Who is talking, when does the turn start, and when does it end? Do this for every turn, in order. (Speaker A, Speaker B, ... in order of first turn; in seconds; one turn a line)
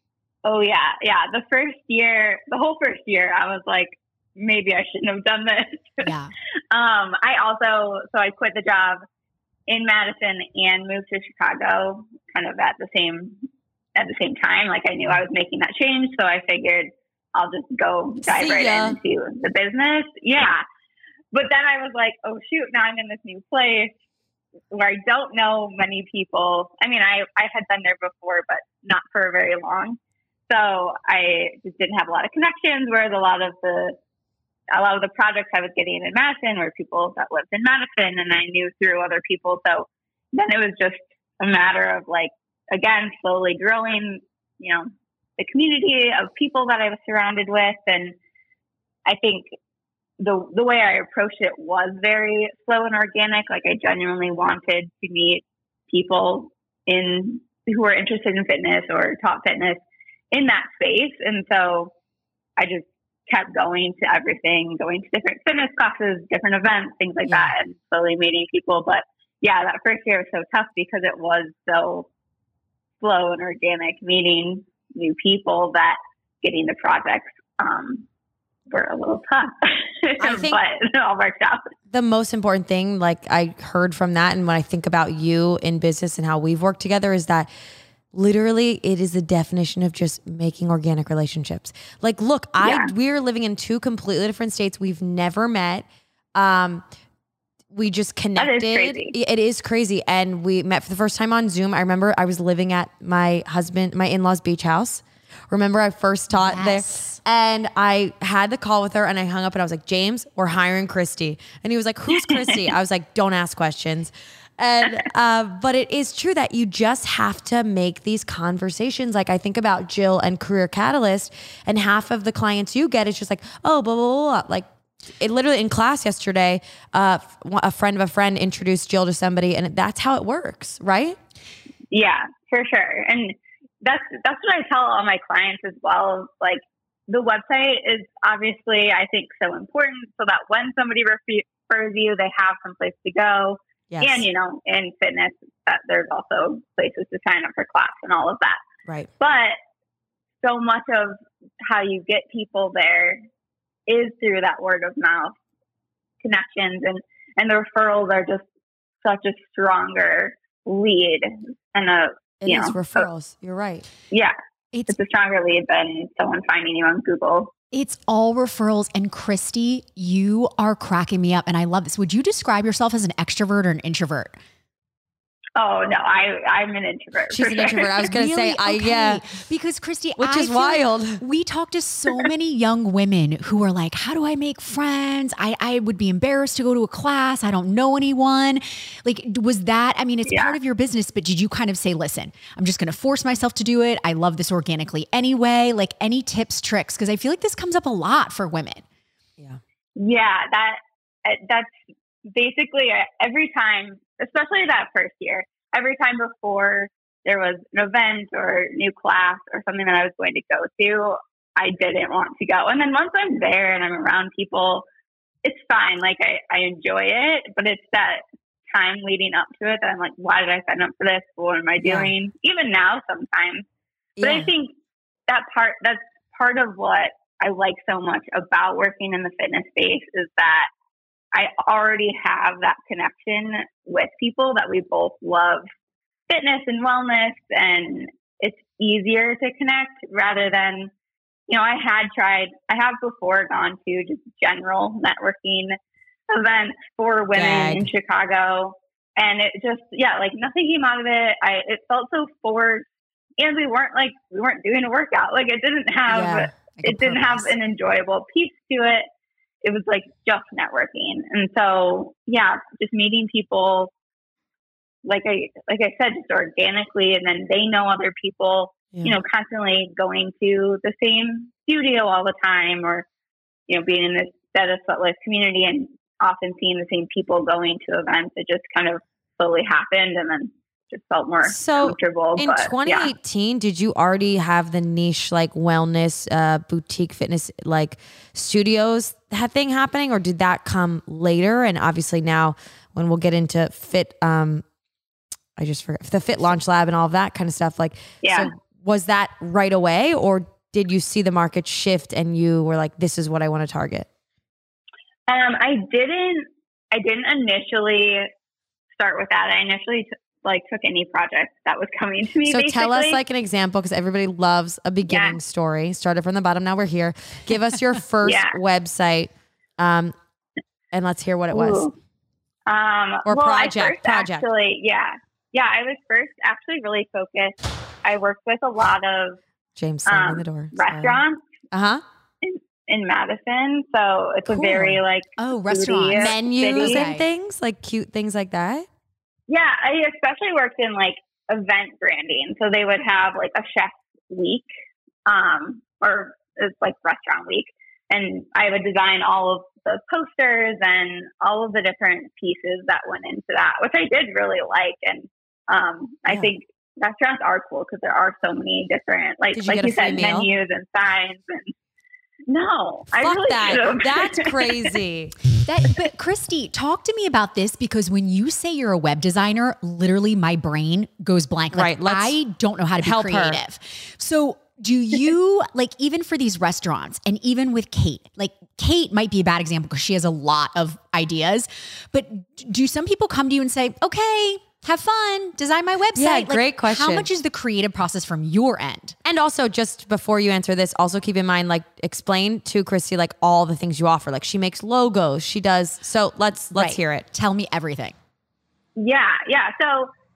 Speaker A: 0.5-6.1
Speaker B: 6.0-6.3
Speaker A: 6.7-9.0
Speaker A: 9.7-13.4
Speaker A: 14.0-20.6
Speaker C: 18.2-19.0
Speaker A: 21.3-23.9
Speaker A: 24.7-30.0
Speaker A: 30.5-34.0
Speaker A: 34.7-48.2
Speaker A: 49.1-49.5
Speaker A: 50.2-61.9
Speaker A: 62.6-72.1
Speaker C: 67.3-67.5
Speaker A: 73.0-78.0
Speaker A: 78.7-81.7
Speaker C: 80.2-80.6
Speaker C: 81.9-87.5
Speaker C: 88.1-96.8
Speaker A: 92.6-92.9
Speaker C: 97.7-124.7
Speaker A: 98.4-99.2
Speaker B: 106.3-107.2
Speaker A: 112.2-112.6
Speaker C: 125.2-131.2
Speaker A: 131.9-148.6
Speaker C: 143.9-144.3
Speaker A: 149.2-149.6
Speaker A: 150.4-153.2
Speaker A: 153.9-155.4
Speaker A: 156.2-158.5
Speaker A: 159.0-163.1
Speaker C: 162.4-163.9
Speaker A: 164.9-167.5
Speaker B: 167.7-174.4
Speaker A: 175.6-177.9
Speaker C: 177.3-179.2
Speaker B: 178.0-198.8
Speaker C: 180.2-181.2
Speaker A: 190.3-190.6
Speaker A: 200.0-214.8
Speaker A: 215.4-218.2
Speaker A: 218.7-223.7
Speaker C: 221.8-222.1
Speaker C: 224.2-224.5
Speaker A: 224.2-224.7
Speaker A: 225.3-230.7
Speaker A: 231.3-235.7
Speaker A: 236.3-240.9
Speaker A: 241.5-245.8
Speaker A: 246.3-259.1
Speaker C: 247.3-247.9
Speaker C: 256.1-256.5
Speaker B: 256.7-257.5
Speaker A: 259.6-263.9
Speaker A: 265.0-273.1
Speaker A: 273.7-283.1
Speaker C: 281.4-294.6
Speaker C: 295.6-304.1
Speaker A: 298.2-298.5
Speaker A: 305.3-308.3
Speaker A: 308.9-313.2
Speaker C: 312.4-320.1
Speaker A: 315.1-315.4
Speaker A: 318.2-318.6
Speaker C: 320.9-321.9
Speaker A: 321.5-321.9
Speaker A: 322.7-329.4
Speaker C: 323.2-324.5
Speaker C: 329.8-331.2
Speaker A: 330.1-331.4
Speaker C: 331.7-332.0
Speaker A: 332.4-337.0
Speaker C: 334.5-335.0
Speaker B: 335.4-337.2
Speaker C: 336.2-338.9
Speaker A: 339.5-344.7
Speaker A: 345.3-361.7
Speaker C: 359.5-360.5
Speaker A: 362.5-364.9
Speaker C: 363.1-365.4
Speaker B: 365.6-389.2
Speaker C: 371.7-372.4
Speaker C: 373.0-373.6
Speaker C: 386.1-387.3
Speaker C: 389.2-397.3
Speaker B: 396.7-398.1
Speaker A: 399.0-400.1